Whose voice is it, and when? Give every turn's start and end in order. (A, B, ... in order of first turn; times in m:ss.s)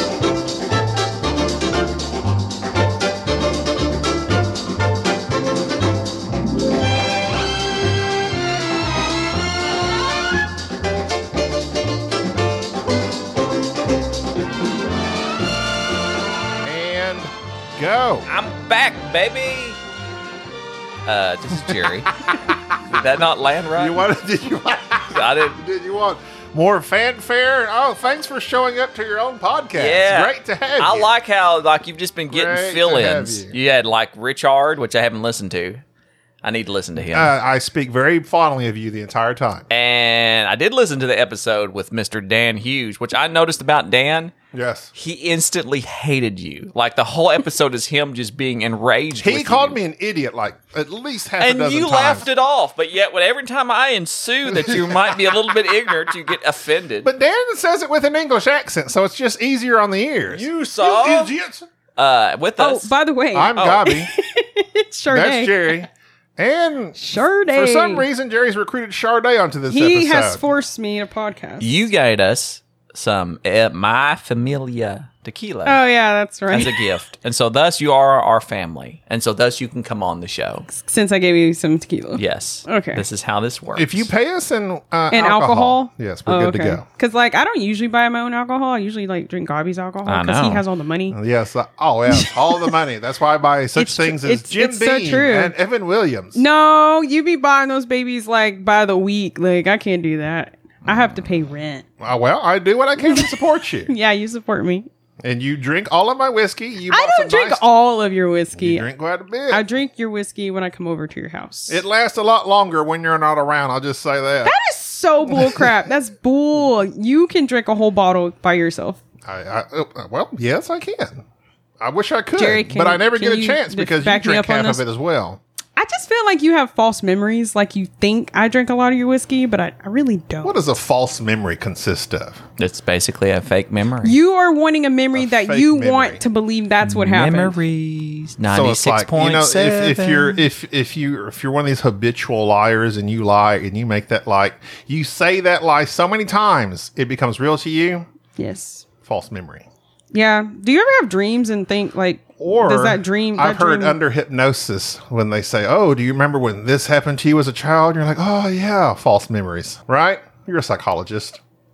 0:16.6-0:18.3 A
0:18.3-0:19.8 B
0:21.0-0:22.2 B
0:22.8-0:24.0 B
0:23.7-0:31.1 A
0:25.1-0:25.6 B
0:29.8-0:35.8 B
0:32.3-0:33.5 A
0:36.4-0:37.3 B
0:37.1-0:39.7 A
0:39.7-0:44.3 B
0:44.5-0:44.9 A
0:44.9-0:49.8 B
0:49.2-0:52.3 A
0:51.4-0:57.1 B
0:54.4-0:55.5 A
0:57.0-1:01.7 A
1:00.3-1:01.3 B
1:02.0-1:02.9 B
1:02.6-1:05.8 C
1:03.3-1:04.1 A
1:03.5-1:03.9 B
1:05.1-1:10.4 A
1:07.0-1:08.0 C
1:09.7-1:11.8 C
1:11.6-1:15.8 B
1:15.6-1:16.9 C
1:16.5-1:20.7 B
1:20.7-1:23.0 C
1:22.2-1:24.1 B
1:23.8-1:26.8 A
1:25.1-1:31.2 C
1:30.0-1:30.6 B
1:31.1-1:36.4 A
1:32.1-1:32.7 C
1:33.8-1:35.5 C
1:36.3-1:41.8 C
1:42.0-1:43.9 A
1:43.0-1:44.9 C
1:45.2-1:47.6 A
1:46.9-1:48.8 C
1:48.6-1:49.6 A
1:49.5-1:51.8 C
1:51.7-1:54.5 A
1:54.4-1:59.0 C
1:55.3-1:55.7 A
1:59.2-2:01.2 A
2:01.8-2:05.4 A
2:02.4-2:04.8 C
2:05.8-2:10.6 C
2:10.4-2:12.4 A
2:12.6-2:14.2 B
2:14.0-2:17.6 C
2:15.1-2:16.2 A
2:16.8-2:20.4 B
2:18.5-2:28.0 A
2:28.4-2:28.8 C
2:29.0-2:29.6 A
2:30.1-2:34.0 C
2:32.4-2:41.4 A